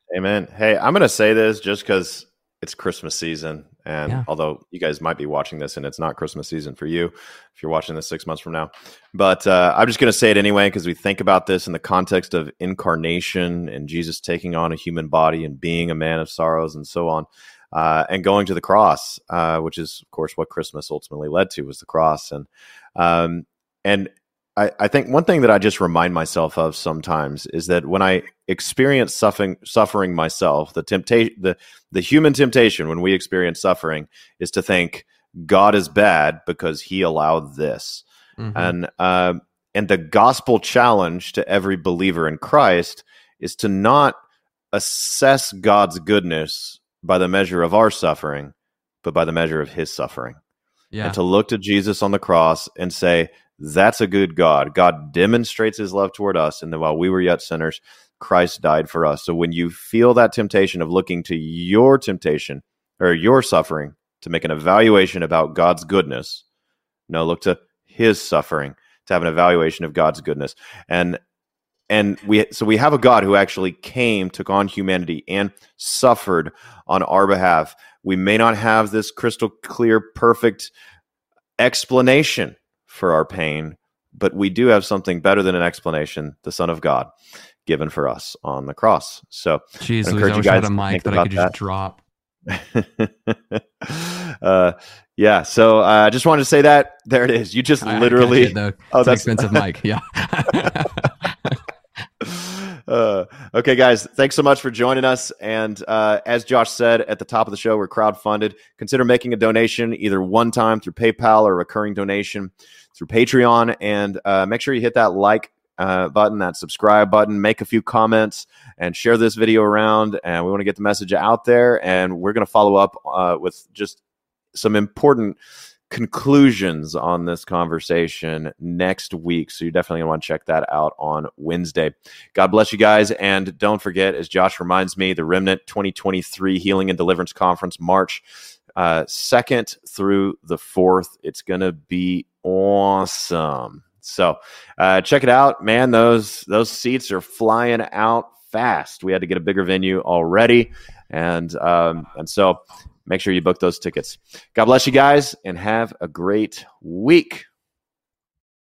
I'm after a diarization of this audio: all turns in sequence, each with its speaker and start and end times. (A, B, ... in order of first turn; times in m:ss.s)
0:00.1-0:44.2 A
0:38.4-0:38.8 B
0:44.7-0:50.4 A
0:50.9-0:51.2 B
0:51.0-1:06.4 A
1:07.1-1:11.2 A
1:11.9-1:20.7 A
1:21.6-1:27.1 A
1:27.7-1:31.5 A
1:29.8-1:32.0 B
1:32.5-1:39.6 A
1:37.8-1:41.6 B
1:42.2-2:04.0 A
2:04.5-2:05.4 A
2:05.9-2:18.2 A
2:18.8-2:37.5 A